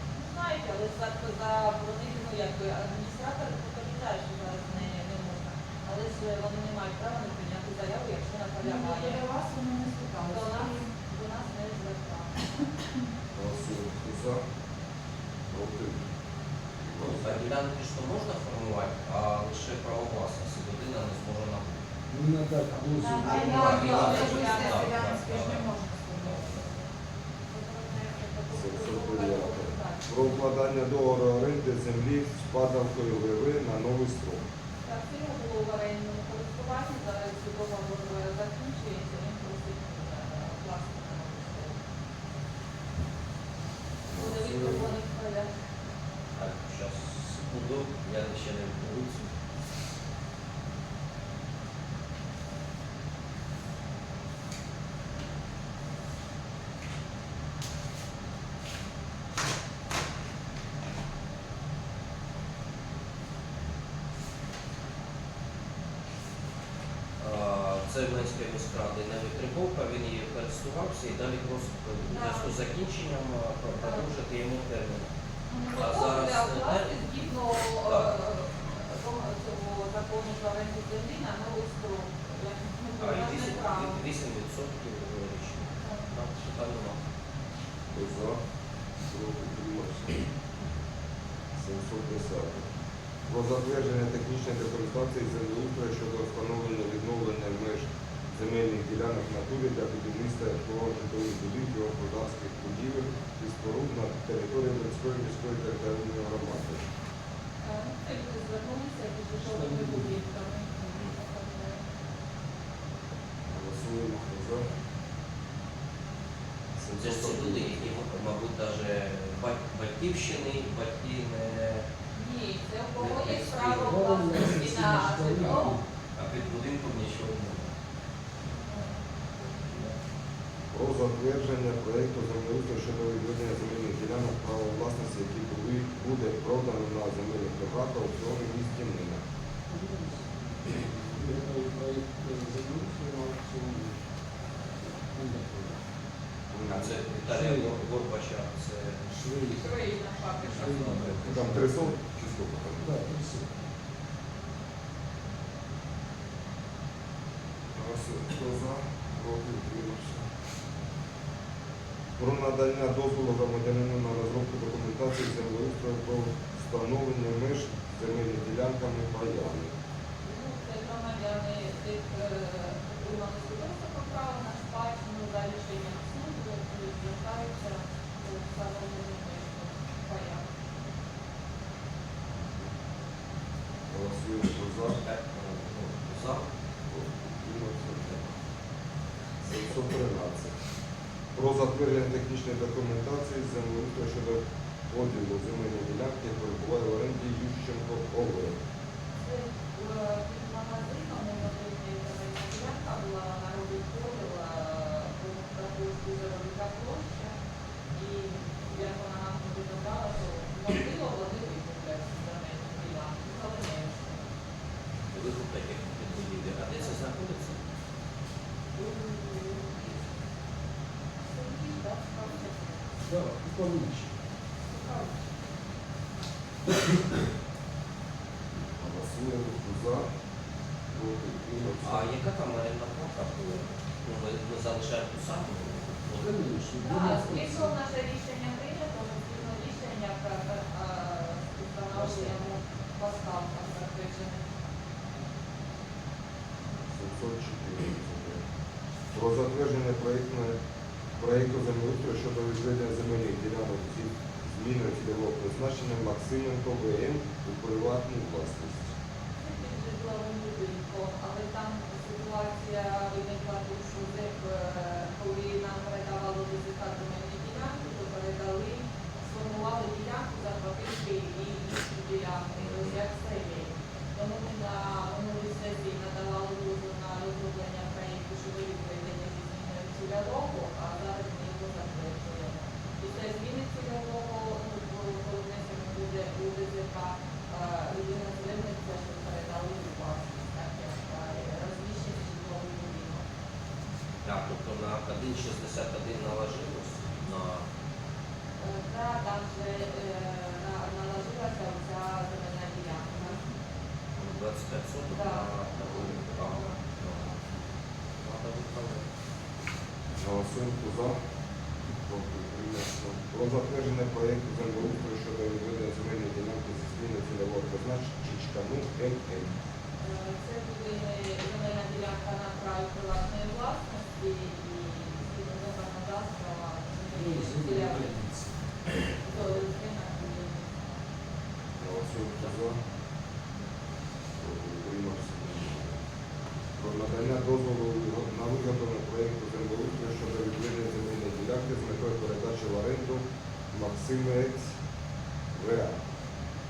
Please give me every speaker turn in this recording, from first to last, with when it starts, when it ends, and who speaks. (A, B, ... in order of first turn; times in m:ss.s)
0:00.1-0:09.2 A
0:08.6-0:10.9 B
0:10.3-0:12.3 A
0:13.3-0:14.4 C
0:15.5-0:16.1 C
0:16.8-0:17.5 C
0:17.0-0:21.8 D
0:22.1-0:24.1 E
0:23.0-0:26.6 B
0:23.1-0:25.2 A
0:23.2-0:26.9 D
0:27.5-0:30.1 A
0:28.5-0:34.4 C
0:34.8-0:41.8 A
0:44.1-0:44.9 C
0:44.2-0:45.5 A
0:46.4-0:49.2 D
1:07.2-1:15.1 D
1:12.1-1:12.5 A
1:13.8-1:14.0 A
1:15.5-1:24.0 A
1:15.8-1:17.0 D
1:17.8-1:18.1 D
1:23.0-1:27.0 D
1:25.8-1:26.1 A
1:27.9-1:28.4 C
1:29.1-1:30.2 C
1:31.6-1:32.7 C
1:33.3-1:46.8 C
1:47.6-1:51.8 A
1:49.4-1:50.2 E
1:53.5-1:54.7 C
1:56.8-1:58.0 C
1:57.0-2:01.9 D
2:02.2-2:05.8 A
2:03.0-2:04.1 D
2:03.8-2:05.8 E
2:06.2-2:07.7 D
2:08.7-2:09.0 A
2:10.7-2:19.2 C
2:19.7-2:24.0 E
2:24.9-2:25.8 E
2:26.5-2:27.0 C
2:26.6-2:29.0 D
2:27.2-2:27.8 E
2:29.1-2:29.9 E
2:29.6-2:30.8 A
2:30.4-2:31.8 E
2:30.6-2:31.2 D
2:31.2-2:32.9 C
2:32.8-2:33.6 E
2:37.7-2:40.3 C
2:42.2-2:49.7 C
2:50.2-3:00.5 A
3:02.4-3:02.7 C
3:03.9-3:05.0 C
3:05.0-3:06.5 D
3:06.9-3:08.3 C
3:09.4-3:10.5 C
3:11.3-3:18.6 C
3:19.2-3:27.3 A
3:27.9-3:34.3 A
3:35.1-3:37.6 D
3:38.8-3:39.8 A
3:41.3-3:42.9 A
3:43.0-3:44.2 E
3:44.7-3:45.1 A
3:48.6-3:50.1 C
3:50.9-3:52.1 C
3:51.8-3:56.3 D
3:56.1-3:57.8 E
3:56.8-4:04.4 A
4:01.9-4:02.4 E
4:06.9-4:08.4 C
4:09.1-4:10.6 C
4:11.2-4:18.9 C
4:19.4-4:53.2 A
4:32.6-4:33.0 D
4:54.2-4:57.6 D
4:58.6-5:03.4 A
5:04.2-5:07.4 D
5:05.1-5:06.8 A
5:08.2-5:09.0 D
5:10.2-5:11.2 C
5:11.9-5:19.6 C
5:20.0-5:28.1 A
5:27.1-5:28.6 E
5:29.2-5:30.8 A
5:31.8-5:32.8 C
5:34.4-5:36.0 C
5:36.8-5:44.7 C
5:45.5-5:46.0 C